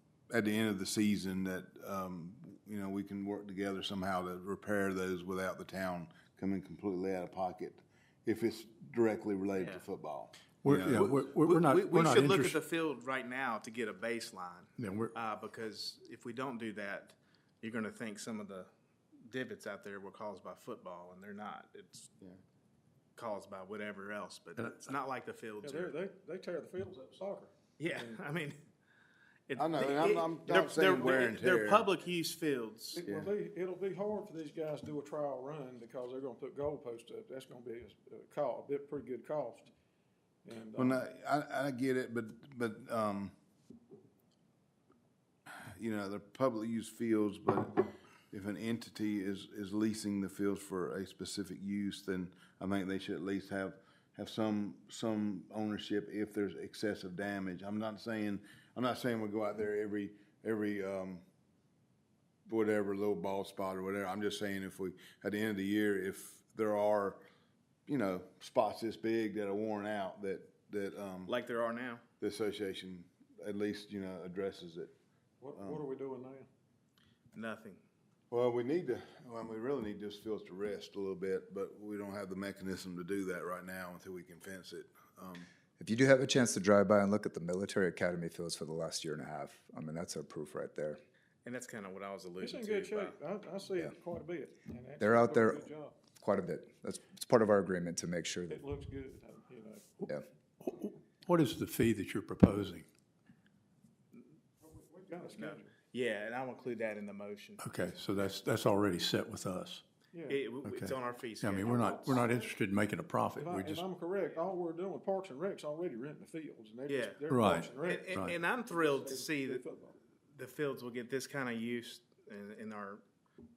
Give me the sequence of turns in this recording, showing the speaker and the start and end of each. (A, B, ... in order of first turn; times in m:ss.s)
0:00.3-0:11.0 A
0:09.6-0:09.8 B
0:10.6-0:12.6 C
0:10.9-0:22.1 B
0:14.8-0:15.1 C
0:23.2-0:25.9 B
0:24.6-0:24.9 C
0:25.6-0:27.4 D
0:27.8-0:28.6 B
0:29.5-0:33.0 B
0:29.5-0:31.9 A
0:33.0-0:39.6 D
0:33.0-0:33.3 A
0:40.4-0:41.0 D
0:40.7-0:43.3 A
0:45.7-1:01.2 A
1:02.5-1:07.2 A
1:07.9-1:11.3 A
1:11.2-1:12.0 B
1:12.2-1:14.9 A
1:15.4-1:16.4 D
1:15.5-1:15.8 A
1:17.3-1:17.8 B
1:18.3-1:25.5 A
1:25.8-1:31.0 E
1:31.4-1:33.2 B
1:32.4-1:36.0 D
1:35.0-1:35.6 E
1:36.2-1:38.6 E
1:38.5-1:39.9 D
1:40.6-1:42.8 C
1:44.7-1:45.7 D
1:45.3-1:47.6 B
1:47.6-1:49.8 C
1:50.3-1:52.3 B
1:50.6-1:53.8 C
1:53.4-1:58.0 D
1:56.9-1:59.6 B
1:57.3-1:58.4 C
1:59.6-1:59.9 D
2:00.3-2:03.0 B